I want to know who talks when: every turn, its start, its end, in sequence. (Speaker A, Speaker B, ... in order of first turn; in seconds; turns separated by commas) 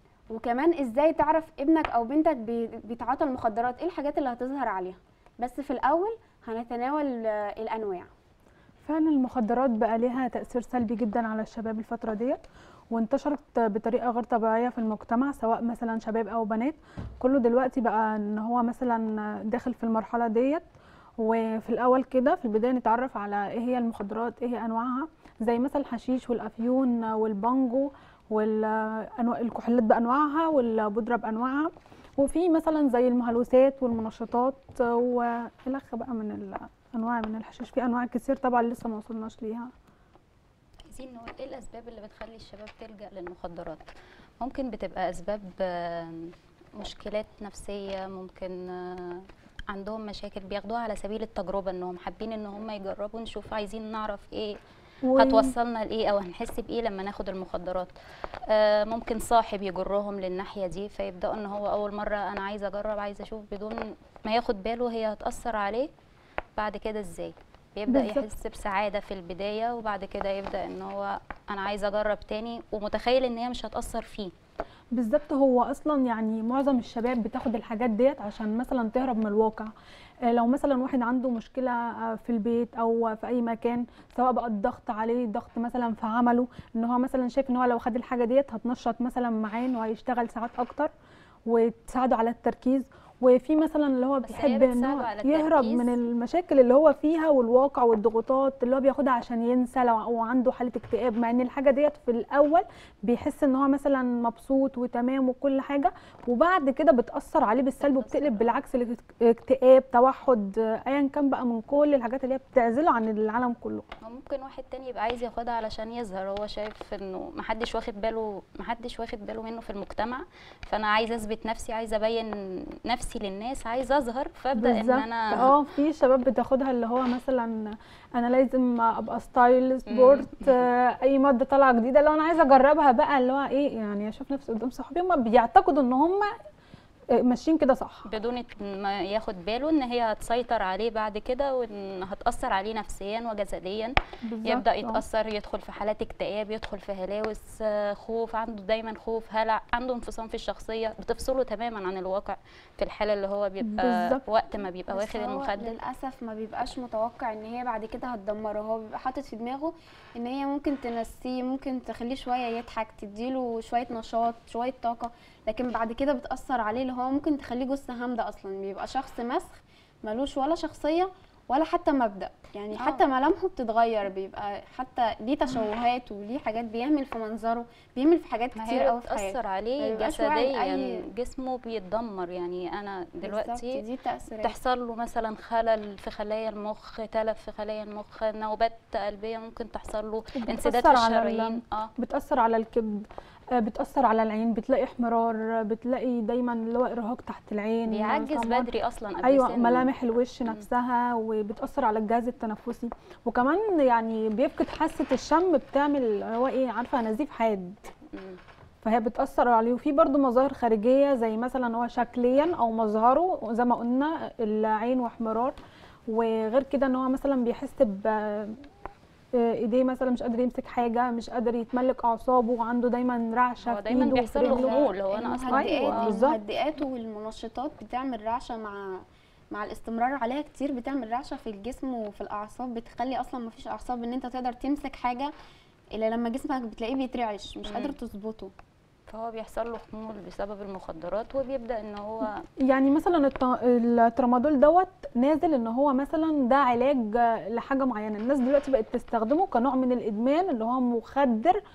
Speaker A: 0.3-8.1, Speaker B: 8.8-20.6, Speaker B: 21.2-39.7, Speaker C: 40.9-43.9, Speaker C: 44.4-54.6, Speaker B: 55.0-55.5, Speaker C: 55.2-57.9, Speaker C: 58.5-65.9, Speaker C: 66.6-74.3, Speaker B: 67.9-68.3, Speaker B: 74.9-79.7, Speaker B: 80.3-90.9, Speaker B: 91.5-113.8, Speaker C: 94.2-95.9, Speaker C: 107.8-108.5, Speaker C: 114.0-125.5, Speaker B: 124.5-136.3, Speaker C: 129.9-130.5, Speaker B: 137.2-138.1, Speaker C: 138.1-143.9, Speaker B: 144.2-145.0, Speaker C: 144.4-155.8, Speaker B: 153.6-154.2, Speaker A: 154.9-181.0, Speaker C: 172.8-173.0, Speaker C: 178.6-183.8, Speaker A: 183.2-184.5, Speaker C: 184.4-191.9, Speaker B: 190.3-198.7, Speaker C: 197.9-199.9, Speaker B: 199.2-207.8, Speaker C: 208.1-208.4, Speaker B: 208.8-215.6, Speaker B: 216.1-218.7, Speaker B: 219.4-224.8, Speaker C: 223.6-226.2, Speaker A: 223.9-235.3, Speaker B: 225.5-226.4, Speaker A: 235.9-238.5, Speaker C: 237.6-237.9, Speaker C: 239.1-242.4, Speaker B: 242.6-251.6